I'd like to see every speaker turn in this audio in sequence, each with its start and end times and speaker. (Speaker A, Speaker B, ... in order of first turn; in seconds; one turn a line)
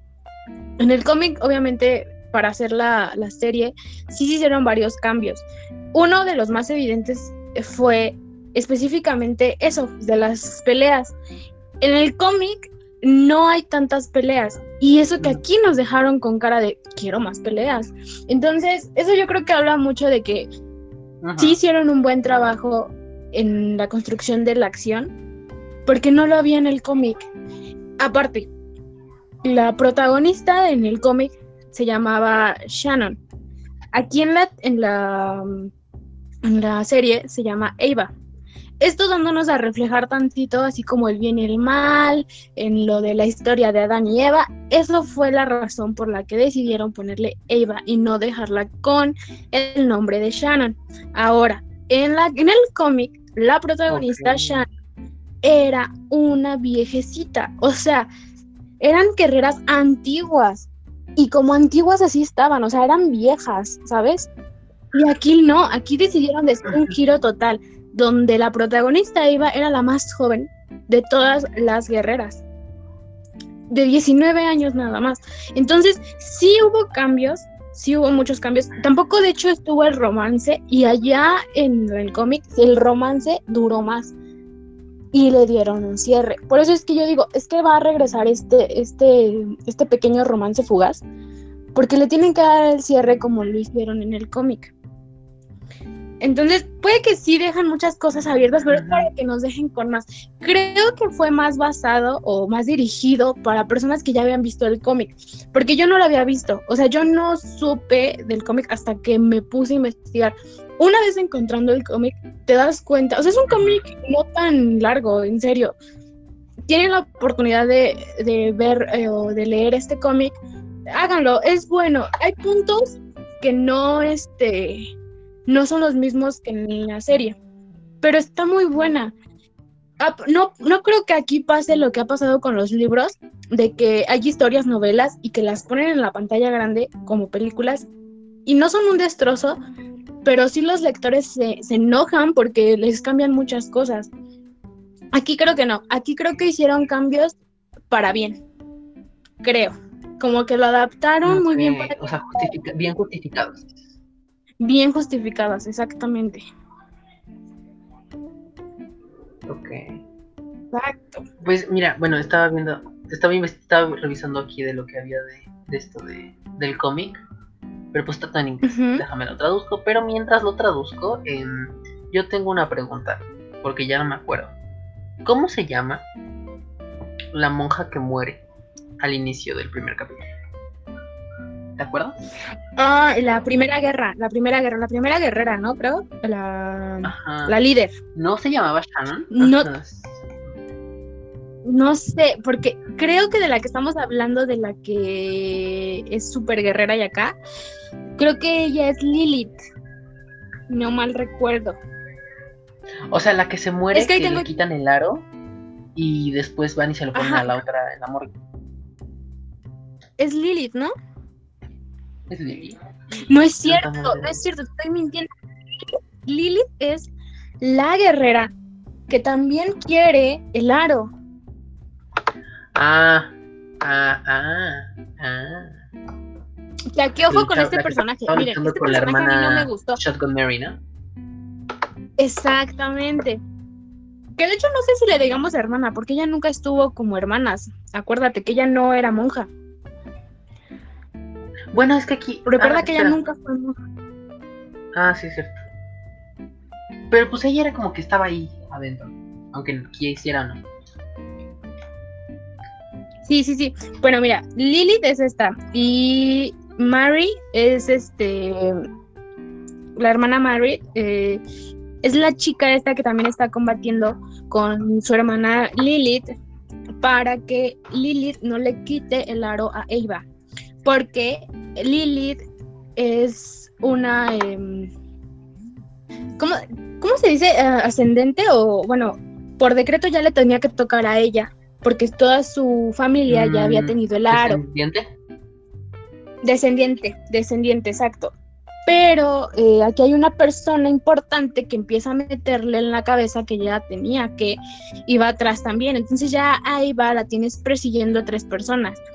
Speaker A: 0.8-11.1
Speaker A: 11.8-20.5
Speaker B: 21.2-21.6
Speaker A: 21.4-25.1
Speaker A: 25.9-27.2
Speaker A: 28.0-28.5
Speaker A: 29.4-33.2
Speaker A: 33.9-35.7
Speaker A: 36.4-38.1
Speaker A: 38.8-54.6
Speaker B: 53.9-54.6
Speaker A: 55.4-58.1
Speaker A: 58.8-64.3
Speaker A: 64.9-72.4
Speaker A: 73.7-84.1
Speaker A: 85.1-91.0
Speaker A: 91.7-94.7
Speaker A: 96.2-115.8
Speaker B: 98.7-99.1
Speaker B: 113.5-113.8
Speaker A: 116.7-120.4
Speaker A: 120.9-124.9
Speaker A: 125.5-127.4
Speaker A: 128.0-129.1
Speaker A: 130.0-137.9
Speaker A: 138.4-139.6
Speaker A: 140.2-144.1
Speaker A: 145.1-147.3
Speaker A: 147.9-148.4
Speaker A: 149.4-152.0
Speaker B: 151.2-153.8
Speaker A: 154.6-156.4
Speaker B: 159.5-160.0
Speaker A: 160.7-161.2
Speaker B: 161.4-167.2
Speaker B: 167.9-174.5
Speaker A: 168.7-169.0
Speaker B: 175.2-176.1
Speaker B: 177.3-178.4
Speaker B: 179.0-180.2
Speaker B: 181.8-182.2
Speaker A: 182.8-187.9
Speaker B: 187.0-187.5
Speaker B: 188.1-190.2
Speaker A: 189.3-189.7
Speaker A: 191.6-197.3
Speaker A: 198.2-199.6
Speaker A: 200.7-201.8
Speaker B: 203.1-205.3
Speaker A: 203.9-204.5
Speaker B: 205.9-208.3
Speaker A: 207.1-207.5
Speaker A: 210.2-210.9
Speaker B: 212.3-212.8
Speaker A: 213.3-218.5
Speaker B: 213.6-214.4
Speaker A: 219.1-221.1
Speaker B: 222.7-225.9
Speaker A: 226.9-230.0
Speaker B: 227.3-230.8
Speaker A: 232.2-233.4
Speaker A: 234.4-239.5
Speaker B: 241.7-243.2
Speaker A: 242.4-243.8
Speaker B: 244.9-245.5
Speaker B: 247.1-250.6
Speaker A: 253.2-258.8
Speaker A: 259.9-261.4
Speaker A: 262.0-266.4
Speaker A: 267.0-270.2
Speaker A: 270.8-272.4
Speaker A: 272.9-274.9
Speaker A: 276.4-284.6
Speaker B: 283.3-285.1
Speaker A: 286.4-288.3
Speaker A: 288.9-299.0